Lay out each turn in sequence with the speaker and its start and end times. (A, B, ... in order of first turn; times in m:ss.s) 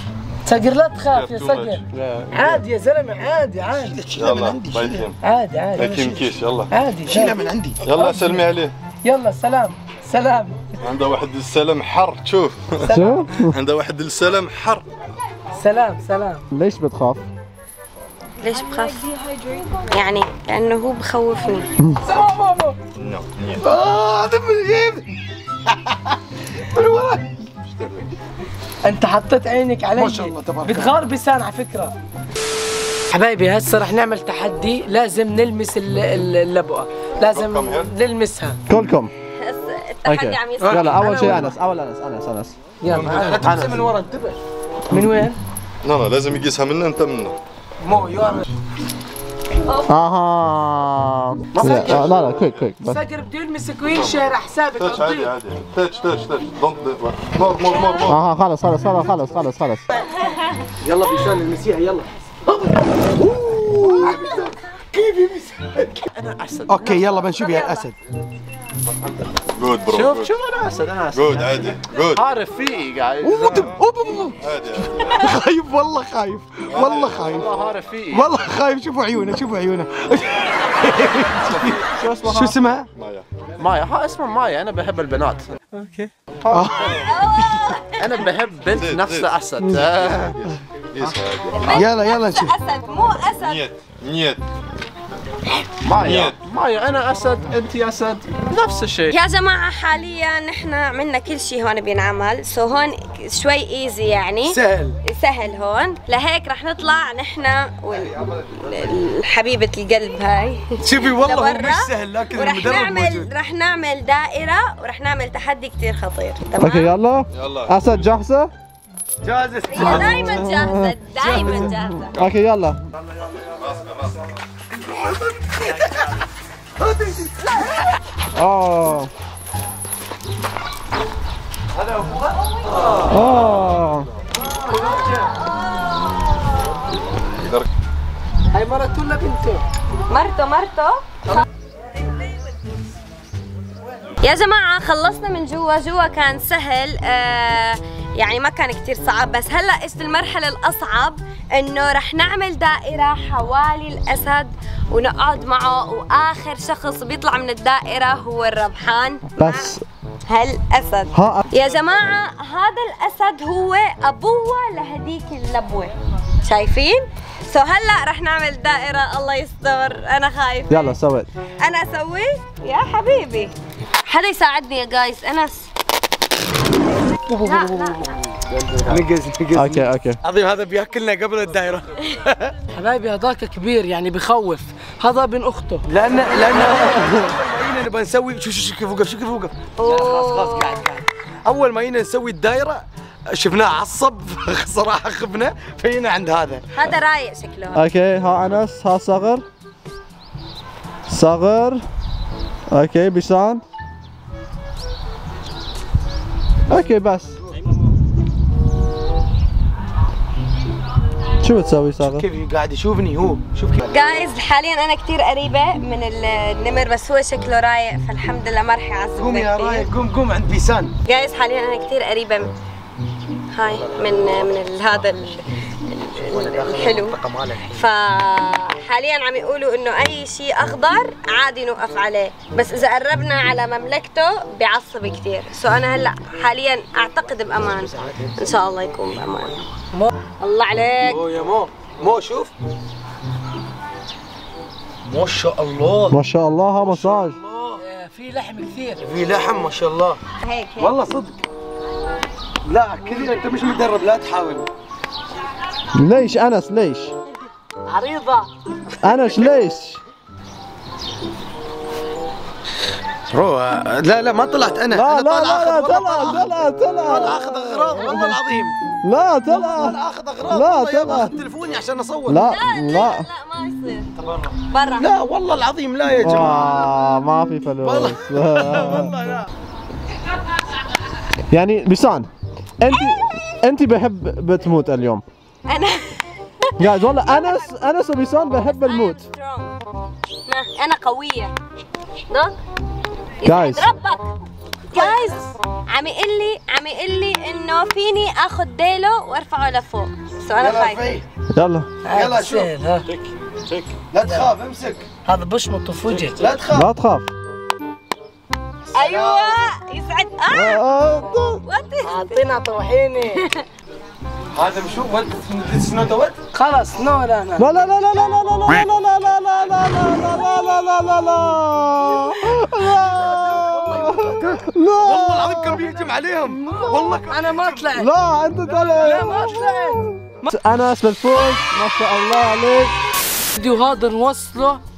0:00.4-0:04.0 A
0:01.1-0:01.8 B
0:01.9-0:02.5 C
0:03.7-0:05.1 D
0:04.2-0:05.2 B
0:05.2-0:08.5 A
0:05.8-0:06.7 B
0:07.1-0:07.8 D
0:07.8-0:08.7 B
0:09.0-0:10.9 A
0:10.8-0:14.9 B
0:12.8-0:13.3 A
0:12.9-0:13.6 C
0:15.6-0:16.4 A
0:16.5-0:17.3 C
0:18.4-0:19.1 E
0:19.9-0:21.7 E
0:22.0-0:22.8 A
0:23.0-0:23.6 B
0:23.6-0:25.1 D
0:25.9-0:27.4 D
0:27.6-0:28.1 B
0:28.8-0:31.9 A
0:30.0-0:31.0 D
0:33.1-0:38.6 A
0:37.2-0:37.9 B
0:38.7-0:39.1 C
0:39.4-0:41.6 E
0:40.0-0:42.6 C
0:40.6-0:41.5 D
0:42.8-0:43.4 A
0:42.9-0:43.8 B
0:42.9-0:44.4 D
0:43.4-0:43.8 C
0:44.9-0:45.4 A
0:45.8-0:47.4 B
0:47.8-0:48.4 D
0:48.2-0:48.4 A
0:49.7-0:50.0 E
0:49.9-0:53.0 C
0:51.5-0:52.4 D
0:51.7-0:52.7 B
0:52.8-0:55.3 A
0:53.9-0:54.2 B
0:54.8-0:58.2 B
0:58.0-0:59.8 C
1:00.8-1:02.7 D
1:03.2-1:05.9 D
1:03.5-1:03.9 C
1:06.1-1:07.1 C
1:06.7-1:08.0 D
1:07.4-1:07.8 E
1:09.4-1:10.4 B
1:09.9-1:13.7 C
1:11.1-1:12.3 B
1:13.2-1:17.5 D
1:14.4-1:15.2 B
1:16.7-1:17.3 B
1:17.2-1:18.3 C
1:18.1-1:22.9 D
1:21.4-1:21.9 B
1:21.9-1:22.6 C
1:22.9-1:23.3 B
1:23.6-1:26.9 C
1:26.5-1:27.6 D
1:26.7-1:27.3 B
1:27.0-1:28.2 E
1:28.0-1:30.4 C
1:28.7-1:31.9 B
1:31.5-1:33.7 E
1:31.7-1:32.6 D
1:33.4-1:34.4 B
1:35.8-1:39.2 C
1:36.0-1:36.4 B
1:39.1-1:56.9 E
1:44.4-1:45.0 D
1:50.8-1:53.3 D
1:56.6-1:58.5 C
1:57.3-1:58.0 B
1:59.2-2:00.3 D
1:59.7-2:02.1 E
1:59.8-2:01.0 C
2:01.2-2:01.7 D
2:01.8-2:02.8 C
2:03.6-2:04.0 B
2:05.1-2:05.9 D
2:06.8-2:07.5 D
2:08.4-2:09.1 C
2:13.1-2:14.1 C
2:17.4-2:17.7 B
2:18.5-2:19.6 A
2:20.1-2:21.0 E
2:24.2-2:39.7 E
2:39.4-2:39.8 C
2:40.3-2:51.0 E
2:41.1-2:41.5 C
2:50.7-2:51.3 C
2:51.6-2:53.5 E
2:54.1-2:55.7 E
2:57.4-2:58.1 E
2:57.4-2:57.9 D
2:58.8-3:02.5 D
2:59.6-3:00.2 C
3:02.7-3:05.9 A
3:05.9-3:16.7 D
3:09.8-3:10.8 E
3:16.7-3:17.8 E
3:17.7-3:19.4 C
3:21.1-3:21.8 C
3:22.7-3:23.6 C
3:26.7-3:27.4 C
3:31.4-3:32.3 C
3:32.0-3:33.9 D
3:33.9-3:39.9 E
3:39.2-3:41.0 D
3:41.1-3:42.5 E
3:43.5-3:47.2 E
3:46.2-3:47.8 D
3:47.7-3:59.6 E
3:57.6-3:58.5 D
4:00.4-4:01.2 E
4:01.0-4:02.5 D
4:05.0-4:06.2 D
4:06.1-4:07.4 C
4:06.8-4:07.8 D
4:07.8-4:09.1 A
4:09.0-4:10.2 D
4:10.4-4:11.0 E
4:10.8-4:11.4 D
4:12.6-4:14.7 D
4:16.0-4:17.1 C
4:17.9-4:18.5 A
4:19.0-4:20.0 C
4:23.3-4:26.5 D
4:24.9-4:28.4 C
4:27.0-4:28.8 D
4:29.0-4:31.3 C
4:29.5-4:32.4 D
4:32.3-4:33.3 C
4:32.4-4:34.1 E
4:34.2-4:36.9 D
4:34.7-4:35.1 E
4:36.2-4:39.1 C
4:37.8-4:39.5 D
4:41.5-4:45.2 C
4:42.9-4:43.4 E
4:45.7-4:46.2 E
4:46.8-4:49.3 C
4:47.1-4:47.8 E
4:48.4-4:49.7 E
4:50.5-4:51.5 E
4:53.4-4:54.3 E
4:53.4-4:53.9 C
4:54.9-5:01.1 E
5:00.6-5:01.2 D
5:01.5-5:01.9 C
5:02.0-5:03.1 A
5:02.1-5:02.7 D
5:03.1-5:03.9 C
5:04.1-5:05.1 D
5:05.2-5:06.4 A
5:06.3-5:06.9 D
5:06.7-5:07.3 C
5:08.9-5:09.6 D
5:08.9-5:10.8 E
5:10.5-5:11.6 C
5:11.6-5:12.6 E
5:12.0-5:13.4 A
5:14.5-5:16.4 D
5:16.5-5:17.7 A
5:17.6-5:25.9 C
5:23.9-5:27.9 D
5:26.6-5:27.2 C
5:27.3-5:28.1 A
5:28.0-5:33.0 C
5:28.6-5:30.5 A
5:33.6-5:34.8 A